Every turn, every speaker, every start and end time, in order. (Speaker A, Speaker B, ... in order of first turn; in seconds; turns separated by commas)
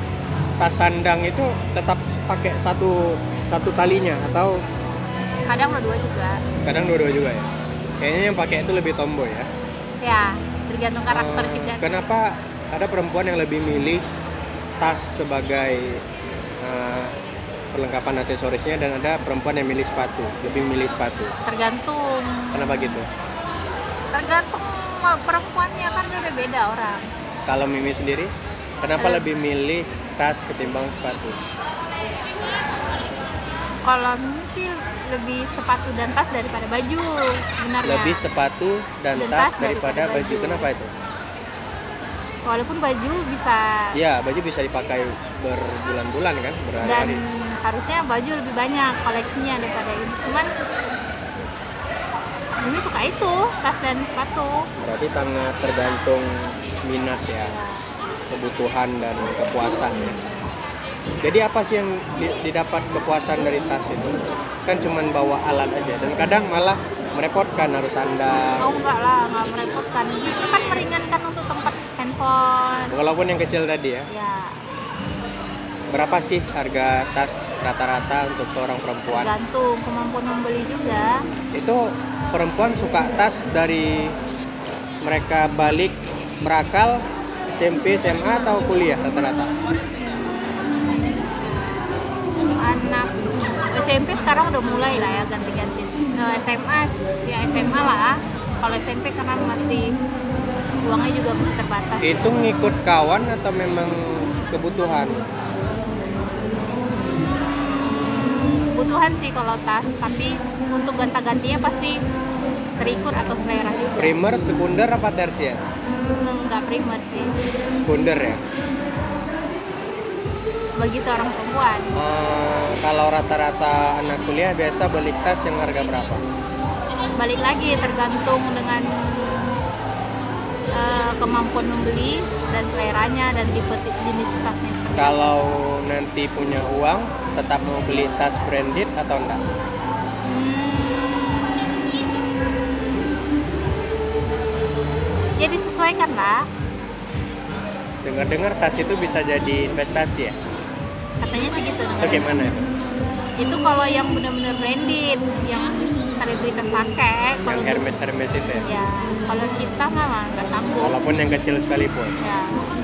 Speaker A: 0.6-4.5, Speaker B: 5.5-6.4, Speaker A: 6.6-7.5, Speaker A: 8.0-9.5, Speaker B: 10.0-12.0, Speaker A: 11.1-14.1, Speaker A: 14.8-16.0, Speaker A: 16.6-17.1, Speaker A: 17.7-21.3, Speaker B: 21.4-23.0, Speaker A: 22.5-23.1, Speaker B: 24.1-27.1, Speaker A: 27.5-31.4, Speaker B: 29.0-29.3, Speaker B: 33.9-38.2, Speaker A: 37.8-40.9, Speaker B: 39.1-40.7, Speaker B: 42.5-44.0, Speaker A: 43.9-47.2, Speaker B: 46.8-50.5, Speaker B: 52.6-54.7, Speaker A: 54.8-57.5, Speaker B: 57.4-57.9, Speaker A: 58.3-60.2, Speaker B: 60.0-60.5, Speaker A: 61.2-68.8, Speaker B: 68.6-73.0, Speaker A: 72.9-74.1, Speaker B: 74.1-74.6, Speaker A: 75.9-79.3, Speaker B: 79.1-81.2, Speaker A: 81.5-84.2, Speaker A: 85.0-87.0, Speaker A: 87.5-89.5, Speaker B: 92.6-99.9, Speaker B: 100.8-102.3, Speaker A: 102.0-105.2, Speaker B: 107.9-112.0, Speaker B: 112.8-114.1, Speaker A: 114.0-115.6, Speaker B: 115.9-117.3, Speaker A: 117.7-118.4, Speaker B: 120.8-121.9, Speaker A: 121.9-126.2, Speaker B: 127.2-129.6, Speaker B: 130.7-135.2, Speaker A: 134.9-139.4, Speaker B: 140.3-142.0, Speaker B: 145.4-146.5, Speaker A: 148.0-150.4, Speaker B: 151.2-152.3, Speaker A: 152.0-152.7, Speaker B: 153.4-157.8, Speaker A: 157.5-158.7, Speaker B: 158.6-161.0, Speaker A: 160.8-162.2, Speaker B: 162.2-162.6